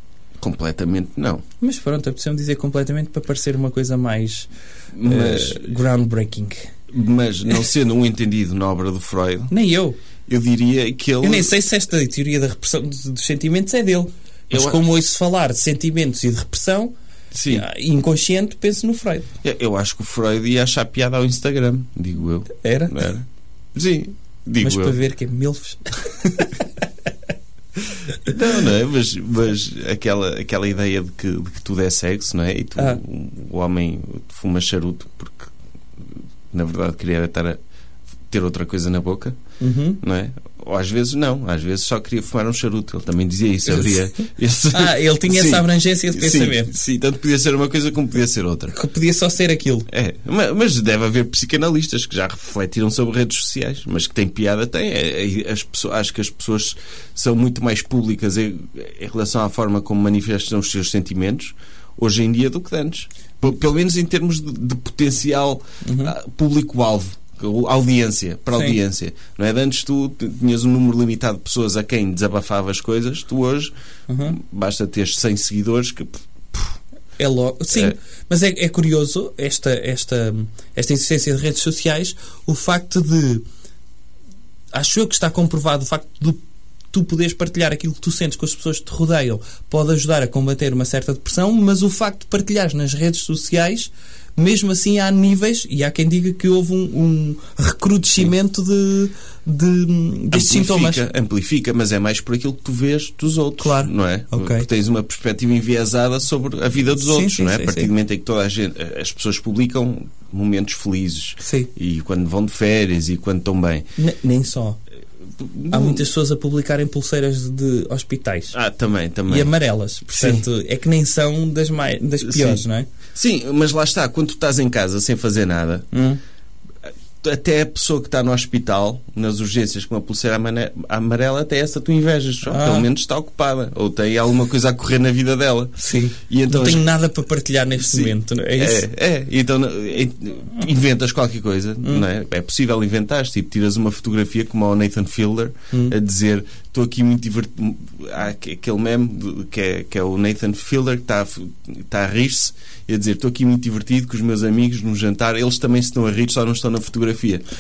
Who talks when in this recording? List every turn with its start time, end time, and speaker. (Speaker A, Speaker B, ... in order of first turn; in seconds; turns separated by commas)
Speaker A: 0.4-1.4, Speaker B: 1.6-4.5, Speaker A: 5.0-5.7, Speaker B: 5.0-6.7, Speaker A: 6.9-9.5, Speaker B: 9.5-10.0, Speaker A: 10.3-11.5, Speaker B: 11.2-16.9, Speaker A: 14.5-14.8, Speaker A: 17.3-17.7, Speaker B: 17.5-19.3, Speaker A: 19.4-25.0, Speaker B: 22.6-23.0, Speaker B: 24.6-26.7, Speaker A: 28.2-35.5, Speaker B: 32.8-33.0, Speaker A: 36.5-37.6, Speaker A: 38.3-39.4, Speaker B: 39.6-40.0, Speaker A: 40.0-48.8, Speaker B: 44.7-46.7, Speaker B: 48.7-49.9, Speaker A: 49.9-73.7, Speaker B: 65.8-66.1, Speaker B: 68.5-68.8, Speaker B: 74.1-74.4, Speaker A: 74.2-76.8, Speaker B: 77.2-83.5, Speaker B: 84.7-101.0, Speaker A: 100.3-113.9, Speaker B: 103.6-104.7, Speaker B: 107.0-107.9, Speaker B: 111.4-111.7, Speaker B: 114.0-114.8, Speaker A: 115.4-116.1, Speaker B: 115.7-118.5, Speaker A: 118.5-119.5, Speaker B: 119.3-122.9, Speaker A: 120.1-120.5, Speaker A: 122.2-125.9, Speaker B: 125.9-126.2, Speaker A: 126.9-135.8, Speaker B: 132.5-132.9, Speaker B: 135.8-138.8, Speaker A: 136.3-136.9, Speaker A: 137.8-157.4